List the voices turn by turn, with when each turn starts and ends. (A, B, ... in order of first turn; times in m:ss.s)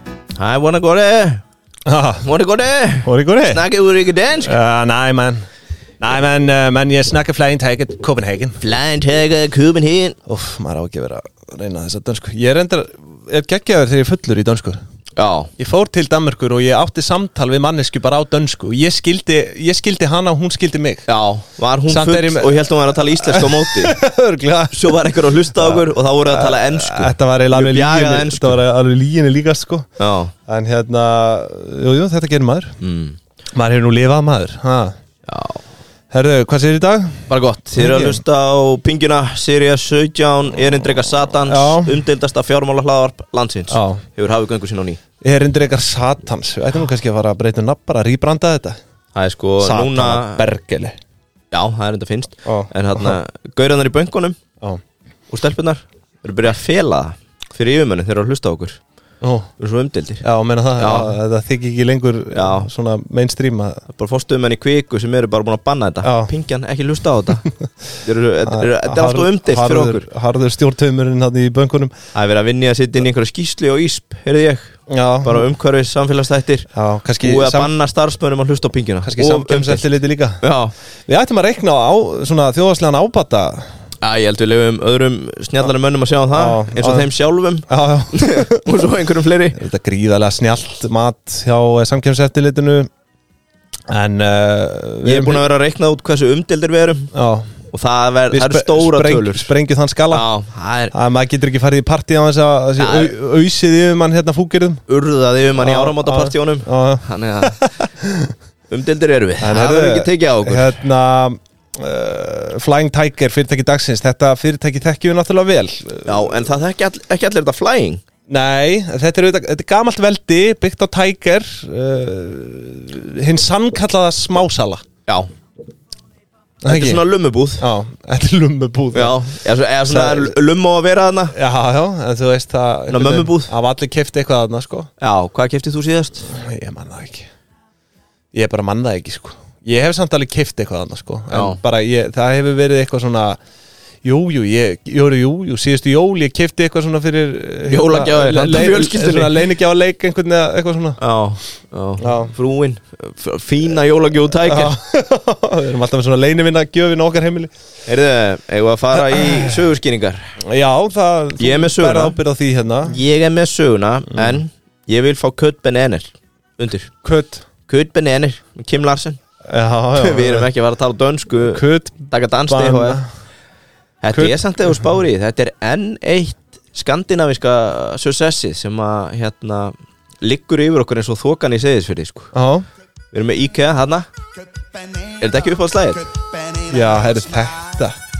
0:00.4-0:01.4 A
0:01.8-0:02.3 B
0:02.2-0:04.5 A
0:03.0-0:03.6 B
0:04.4-0:05.4 B
0:06.0-0:08.6 B
0:08.6-0:10.2 A
0:10.3-0:14.8 B
0:15.2-0:15.5 A
0:15.6-0:21.1 B
0:21.1-0:24.0 A
0:21.9-0:29.9 B
0:24.7-0:28.6 A
0:30.0-0:30.3 A
0:30.5-0:32.8 B
0:32.8-0:33.2 A
0:33.5-0:34.9 B
0:35.2-0:35.6 A
0:36.1-0:38.2 B
0:37.3-0:45.0 A
0:41.3-0:42.0 B
0:43.7-0:44.0 B
0:45.2-0:48.8 B
0:49.1-0:50.4 A
0:49.6-0:51.0 B
0:51.5-0:54.4 A
0:52.4-0:53.2 B
0:55.3-0:58.8 A
0:59.2-0:59.5 B
0:59.6-1:00.2 A
1:00.2-1:03.8 B
1:00.8-1:01.1 A
1:02.3-1:02.7 A
1:03.9-1:07.4 A
1:06.0-1:06.3 B
1:08.0-1:10.0 A
1:08.4-1:11.9 B
1:12.1-1:16.7 A
1:14.9-1:15.5 B
1:16.7-1:17.7 B
1:17.2-1:19.8 A
1:19.0-1:20.4 B
1:20.4-1:20.7 A
1:21.1-1:23.7 B
1:24.0-1:29.6 A
1:26.3-1:27.1 B
1:27.7-1:28.8 B
1:29.6-1:32.9 B
1:33.9-1:35.4 B
1:35.0-1:37.1 A
1:37.1-1:37.5 B
1:37.7-1:39.5 A
1:38.3-1:40.3 B
1:40.1-1:40.9 A
1:40.9-1:44.8 B
1:42.8-1:43.1 A
1:44.9-1:47.8 A
1:45.6-1:48.3 B
1:48.7-1:50.8 A
1:49.4-1:56.5 B
1:56.0-1:58.0 A
1:58.3-2:04.8 B
2:06.6-2:07.0 B
2:06.7-2:07.6 A
2:07.6-2:09.2 B
2:08.9-2:11.3 A
2:09.8-2:10.3 B
2:11.3-2:14.9 B
2:12.9-2:13.5 A
2:15.0-2:16.3 A
2:16.2-2:17.3 B
2:18.3-2:23.4 B
2:21.3-2:21.6 A
2:24.0-2:31.0 B
2:27.7-2:29.5 A
2:31.0-2:34.7 A
2:32.0-2:32.3 B
2:34.4-2:37.5 B
2:37.8-2:40.3 A
2:38.9-2:39.7 B
2:40.5-2:43.0 B
2:41.4-2:42.2 A
2:42.8-2:46.9 A
2:47.0-2:47.4 B
2:47.7-2:49.2 A
2:49.5-2:50.5 B
2:50.0-2:53.0 A
2:51.4-2:53.0 B
2:54.0-3:02.3 A
2:54.1-2:54.4 B
3:02.3-3:02.6 B
3:03.1-3:04.0 A
3:05.2-3:06.1 A
3:06.6-3:08.0 B